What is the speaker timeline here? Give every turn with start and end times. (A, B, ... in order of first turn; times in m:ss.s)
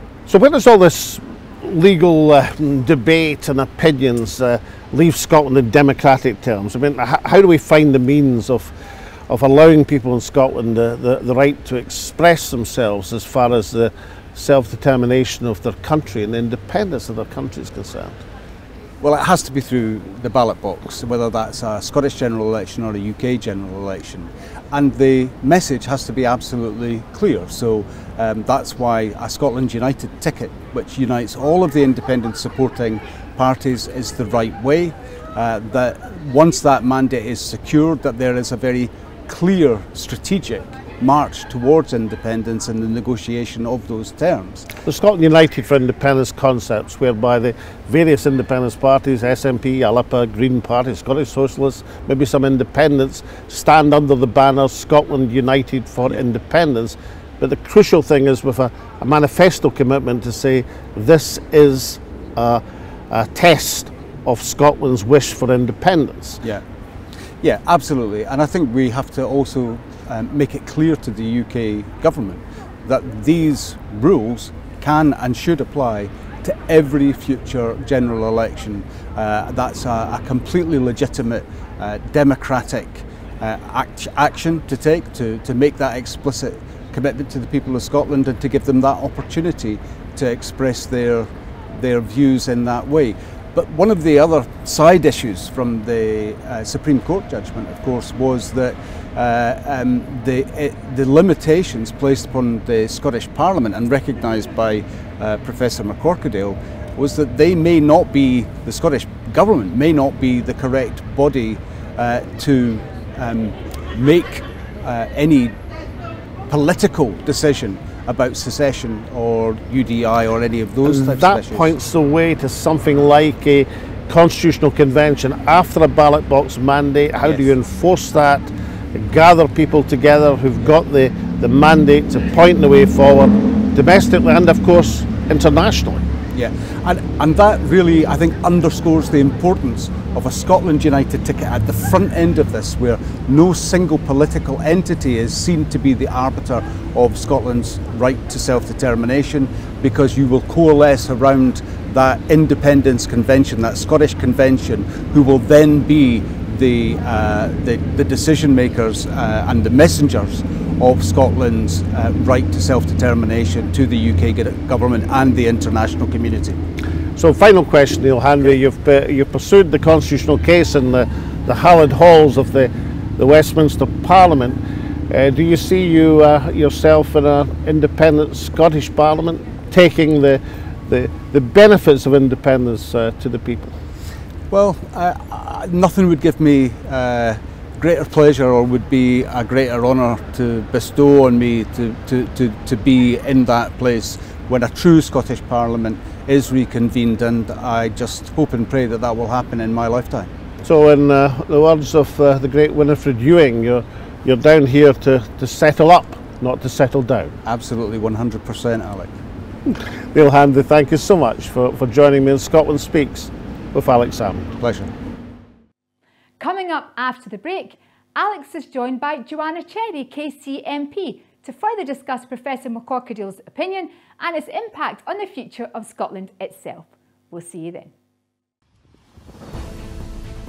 0:00.3-0:18.2 A
0:19.0-0:44.7 B
0:44.8-1:06.4 A
1:07.4-1:55.6 B
1:56.5-2:01.7 B
2:00.8-2:16.1 A
2:07.2-2:07.5 B
2:16.3-2:46.6 B
2:47.2-3:03.8 A
3:04.5-3:20.3 B
3:20.6-3:27.3 A
3:27.4-3:29.2 B
3:29.7-3:34.5 A
3:34.6-3:34.9 B
3:36.4-3:47.9 C